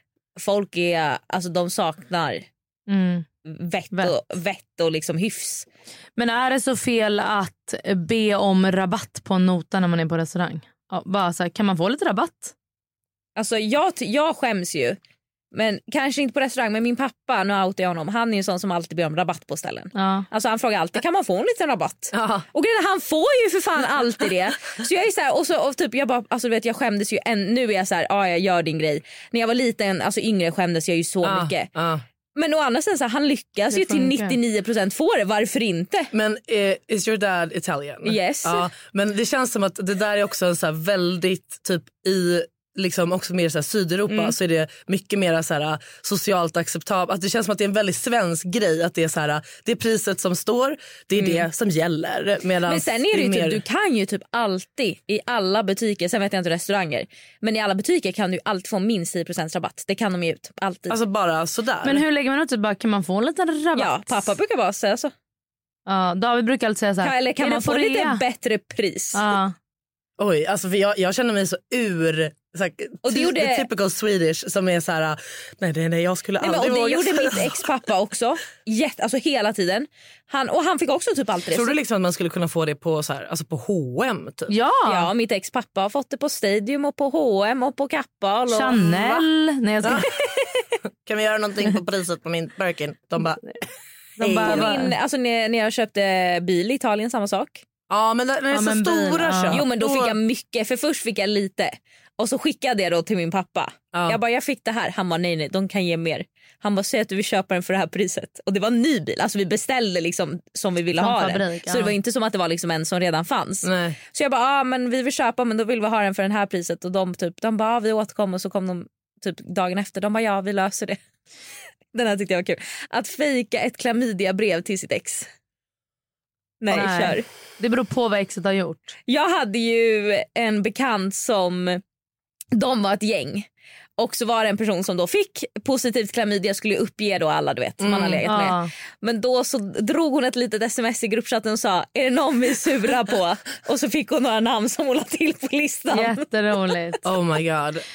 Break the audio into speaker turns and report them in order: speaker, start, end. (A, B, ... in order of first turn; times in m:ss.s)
0:00.4-0:02.5 A
0:02.9-0:03.3 B
0:03.5-0:05.7 A
0:06.2-0:12.5 B
0:13.4-0:15.0 A
0:15.5-0:31.7 A
0:20.0-0:20.3 B
0:22.1-0:22.5 C
0:31.2-0:32.0 C
0:32.4-0:36.1 A
0:33.7-0:34.4 B
0:36.1-0:53.6 C
0:38.0-0:38.7 A
0:44.1-0:44.4 A
0:51.2-0:51.4 A
0:52.7-1:01.0 A
1:00.9-1:02.0 C
1:01.8-1:04.3 B
1:03.8-1:05.1 A
1:05.9-1:08.2 B
1:07.0-1:09.3 A
1:09.1-1:09.6 B
1:10.2-1:17.6 C
1:13.0-1:13.7 A
1:16.4-1:21.8 A
1:21.5-1:24.5 C
1:24.5-1:25.1 B
1:24.9-1:29.1 A
1:28.5-1:30.1 B
1:28.9-1:29.2 C
1:29.8-1:30.2 C
1:30.2-1:30.6 A
1:31.0-1:33.6 C
1:34.2-1:34.9 C
1:34.2-1:34.9 B
1:34.4-1:37.6 A
1:37.9-1:40.2 C
1:38.5-1:39.6 B
1:39.5-2:01.0 A
1:43.9-1:44.2 C
1:51.0-1:51.9 B
1:53.6-1:54.0 C
2:01.9-2:05.3 A
2:06.6-2:07.3 A
2:06.7-2:09.0 B
2:09.1-2:11.8 A
2:12.5-2:13.5 A
2:14.0-2:26.8 A
2:17.8-2:18.2 C
2:18.3-2:18.7 B
2:25.9-2:27.1 B
2:27.0-2:27.8 C